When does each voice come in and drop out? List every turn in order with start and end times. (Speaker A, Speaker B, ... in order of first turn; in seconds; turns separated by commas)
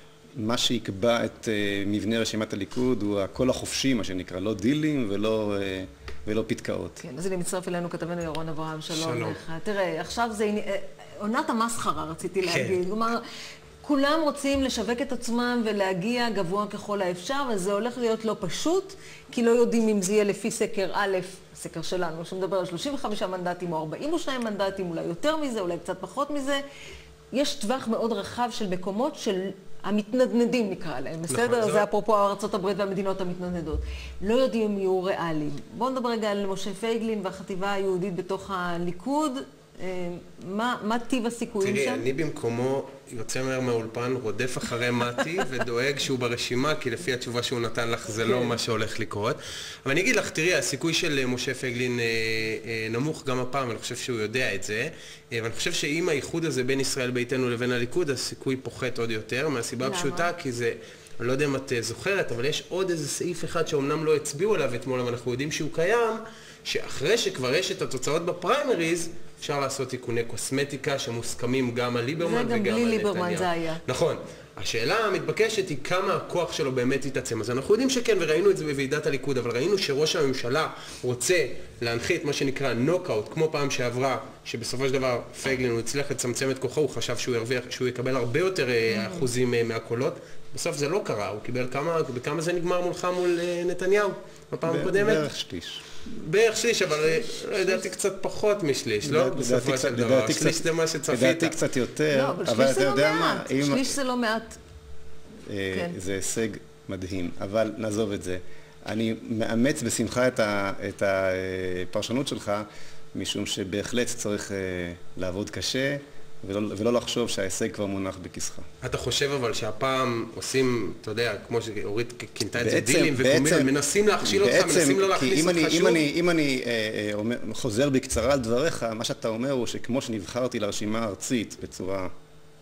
Speaker A: 0.4-7.0, Speaker B: 7.0-13.2, Speaker C: 8.9-9.4, Speaker C: 12.4-12.8, Speaker B: 13.8-26.6, Speaker B: 27.3-42.0, Speaker C: 31.3-31.9, Speaker C: 41.6-95.2, Speaker B: 48.2-48.5, Speaker B: 59.8-60.3, Speaker B: 72.2-73.8, Speaker B: 88.9-89.3, Speaker A: 94.6-95.8, Speaker C: 96.0-101.6, Speaker A: 99.0-103.9, Speaker B: 102.1-104.5, Speaker A: 105.5-118.7, Speaker C: 118.8-126.0, Speaker A: 122.6-123.7, Speaker A: 124.2-132.1